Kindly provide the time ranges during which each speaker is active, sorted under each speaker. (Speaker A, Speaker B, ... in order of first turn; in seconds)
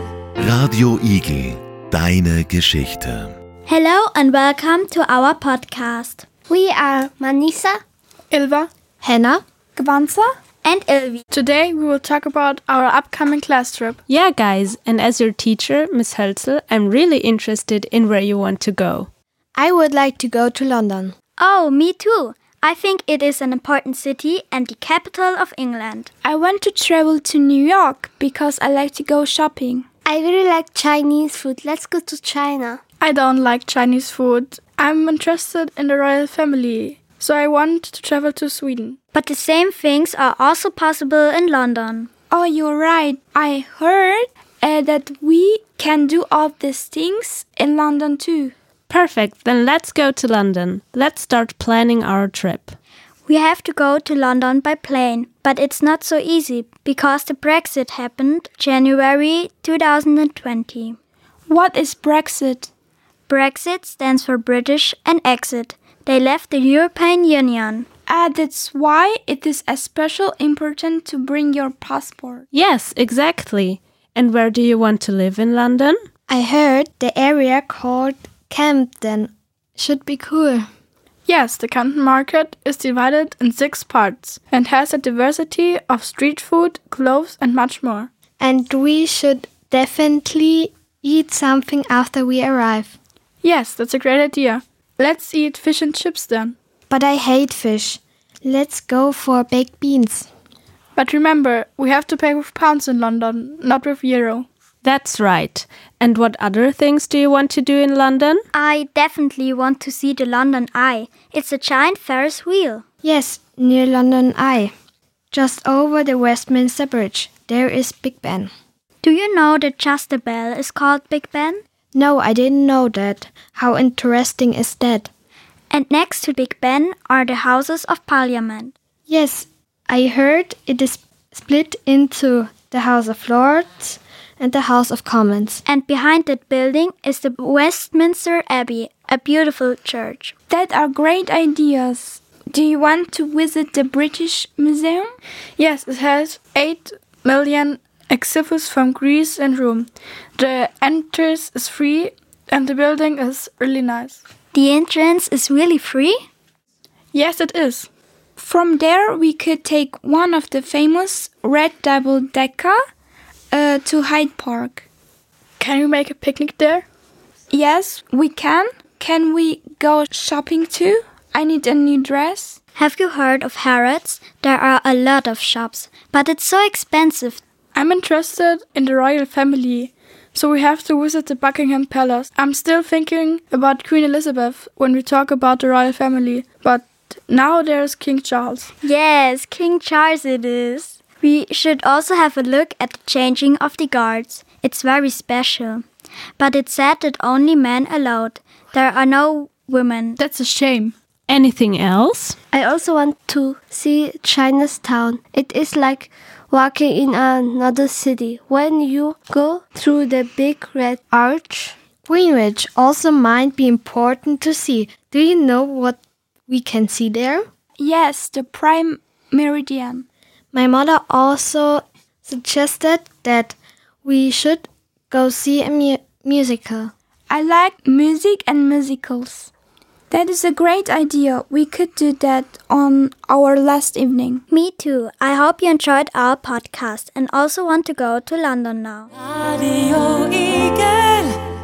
Speaker A: 0.4-3.4
Speaker B: 3.7-6.2, 10.6-11.2, 21.4-26.1, 39.1-42.1, 53.3-61.0, 63.3-67.9, 108.5-112.8, 119.0-121.6, 125.7-128.7, 135.7-140.3, 154.5-156.2, 172.8-177.4, 188.8-195.8, 196.4-200.2, 234.5-239.1
Speaker C: 6.5-7.8, 30.1-32.8, 202.5-211.7
Speaker D: 8.3-8.7, 11.3-14.0, 33.0-39.0, 81.3-88.1, 93.4-96.5, 101.0-104.5, 145.6-154.2, 157.1-157.9, 165.6-166.8, 177.8-188.7, 200.2-200.9
Speaker E: 9.0-9.4, 19.6-21.1, 76.3-80.7, 88.4-93.0, 96.9-100.3, 113.0-114.7, 115.3-118.5, 121.9-125.1, 129.1-135.6, 212.1-217.5, 220.5-226.9
Speaker F: 9.8-10.3, 26.2-29.9, 42.3-48.5, 61.5-62.7, 68.1-72.5, 140.5-145.1, 158.4-162.8, 163.5-164.8, 167.5-172.6, 217.8-220.1, 227.3-229.5, 230.1-234.4
Speaker G: 14.1-19.1, 48.9-52.8, 72.5-76.0, 104.8-108.4, 201.3-202.4, 239.2-241.3